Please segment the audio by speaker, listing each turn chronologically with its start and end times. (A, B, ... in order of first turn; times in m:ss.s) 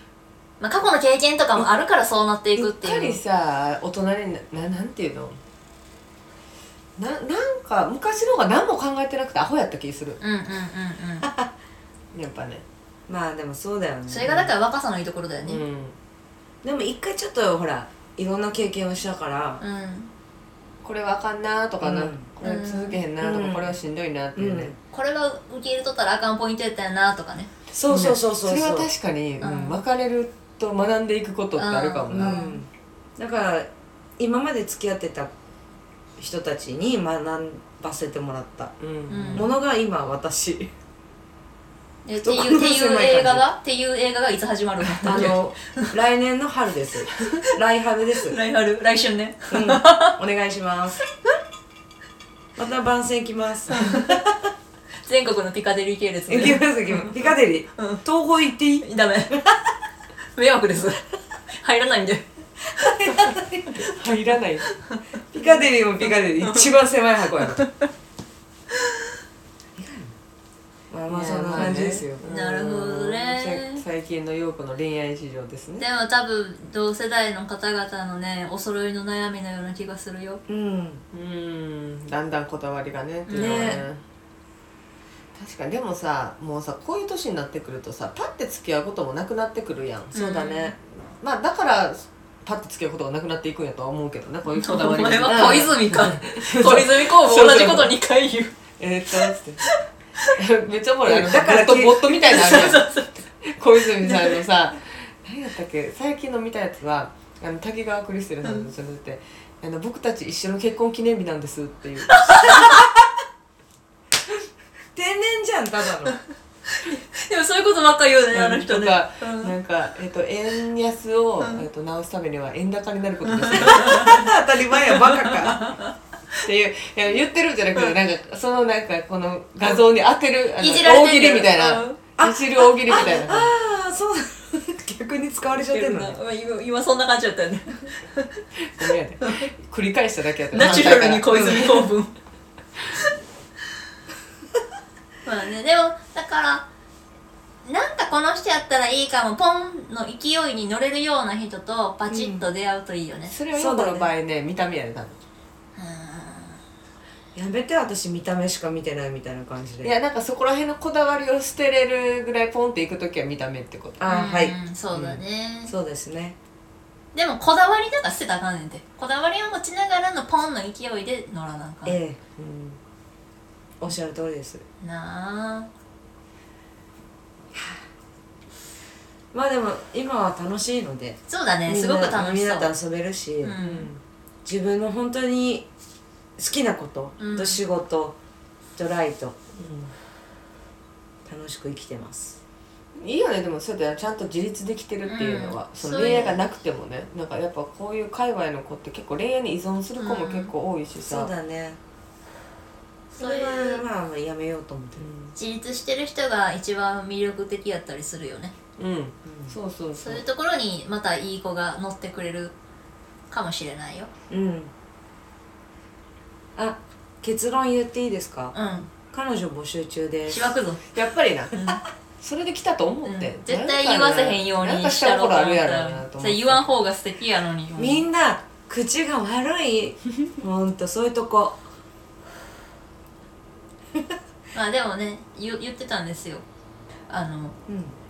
0:00.6-0:03.2 A
0:02.6-0:05.4 B
0:07.0-0:10.2 B
0:10.2-0:11.3 A
0:12.1-0:12.6 B
0:13.1-0:14.5 C
0:14.1-0:15.6 A
0:15.5-0:16.0 B
0:16.6-0:19.6 C
0:19.6-0:20.1 A
0:20.8-0:24.7 B
0:21.8-0:22.3 C
0:22.4-0:23.0 A
0:23.2-0:23.8 C
0:24.4-0:24.8 C
0:24.9-0:27.5 A
0:27.7-0:28.9 C
0:27.9-0:32.4 B
0:29.4-0:29.8 A
0:31.6-0:32.6 A
0:32.1-0:35.3 C
0:36.2-0:38.7 C
0:38.8-0:39.5 B
0:39.1-0:39.5 A
0:39.3-0:40.7 C
0:42.0-0:45.9 A
0:42.2-0:43.5 C
0:45.0-0:48.4 C
0:45.1-0:45.4 B
0:48.3-0:50.2 A
0:49.5-0:51.0 C
0:52.6-0:54.5 C
0:53.7-0:54.2 A
0:55.1-0:57.2 A
0:56.3-0:59.6 C
0:57.8-0:58.0 A
0:58.8-0:59.4 A
1:00.4-1:02.2 A
1:02.8-1:03.9 A
1:02.8-1:03.8 C
1:03.8-1:04.7 B
1:04.7-1:05.0 A
1:05.3-1:05.6 B
1:05.3-1:07.6 C
1:06.0-1:06.7 A
1:07.6-1:07.9 A
1:09.8-1:10.1 C
1:10.9-1:12.2 C
1:11.1-1:15.9 B
1:12.2-1:13.8 A
1:15.8-1:20.4 A
1:20.5-1:21.0 C
1:21.1-1:24.0 B
1:23.3-1:23.8 A
1:23.4-1:23.8 C
1:25.4-1:37.9 B
1:30.1-1:30.7 A
1:30.2-1:30.7 C
1:34.6-1:38.6 A
1:38.8-1:39.6 B
1:39.1-1:40.3 A
1:40.2-1:42.9 B
1:41.0-1:42.8 C
1:42.3-1:43.1 A
1:43.4-1:52.5 B
1:44.0-1:44.4 A
1:48.4-1:48.7 A
1:52.1-1:52.9 A
1:55.0-1:56.2 C
1:56.7-1:59.5 A
1:58.3-2:04.1 B
2:03.4-2:04.3 A
2:03.5-2:05.6 C
2:04.9-2:05.9 A
2:06.4-2:13.5 B
2:10.6-2:12.0 A
2:12.2-2:16.2 C
2:12.9-2:13.2 A
2:15.5-2:18.3 A
2:18.7-2:21.8 B
2:19.2-2:19.5 A
2:20.5-2:22.1 A
2:20.6-2:21.9 C
2:25.2-2:26.7 A
2:27.6-2:33.3 A
2:32.1-2:32.5 C
2:33.3-2:35.2 B
2:33.5-2:34.1 C
2:35.8-2:36.6 A
2:37.4-2:39.9 C
2:39.8-2:44.1 B
2:44.0-2:44.6 C
2:44.1-2:45.7 A
2:44.9-2:45.2 B
2:45.6-2:46.4 C
2:47.1-2:52.0 A
2:51.8-2:52.8 C
2:53.8-2:54.6 C
2:54.8-2:55.7 A
2:59.3-3:03.6 C
3:01.3-3:02.7 A
3:03.4-3:03.9 A
3:03.6-3:04.0 B
3:04.4-3:05.7 C
3:06.4-3:08.2 C
3:07.2-3:07.6 A
3:08.8-3:09.4 C
3:09.6-3:09.9 B
3:11.3-3:12.4 C
3:13.0-3:21.3 B
3:15.1-3:16.4 A
3:16.0-3:16.4 C
3:20.0-3:20.5 A
3:21.0-3:21.8 C
3:23.1-3:23.8 A
3:23.1-3:25.1 C
3:25.0-3:25.4 B
3:25.4-3:28.6 A
3:28.8-3:30.2 B
3:29.3-3:29.6 C
3:30.0-3:32.6 A
3:33.3-3:34.1 A
3:34.3-3:34.7 C
3:36.6-3:38.6 C
3:38.5-3:38.9 A
3:39.1-3:40.5 C
3:40.3-3:40.8 A
3:40.9-3:41.5 B
3:41.5-3:41.8 A
3:42.2-3:46.6 B
3:43.0-3:48.0 A
3:47.8-3:51.6 C
3:54.5-3:56.4 A
3:57.1-3:57.6 A
3:57.7-3:58.0 C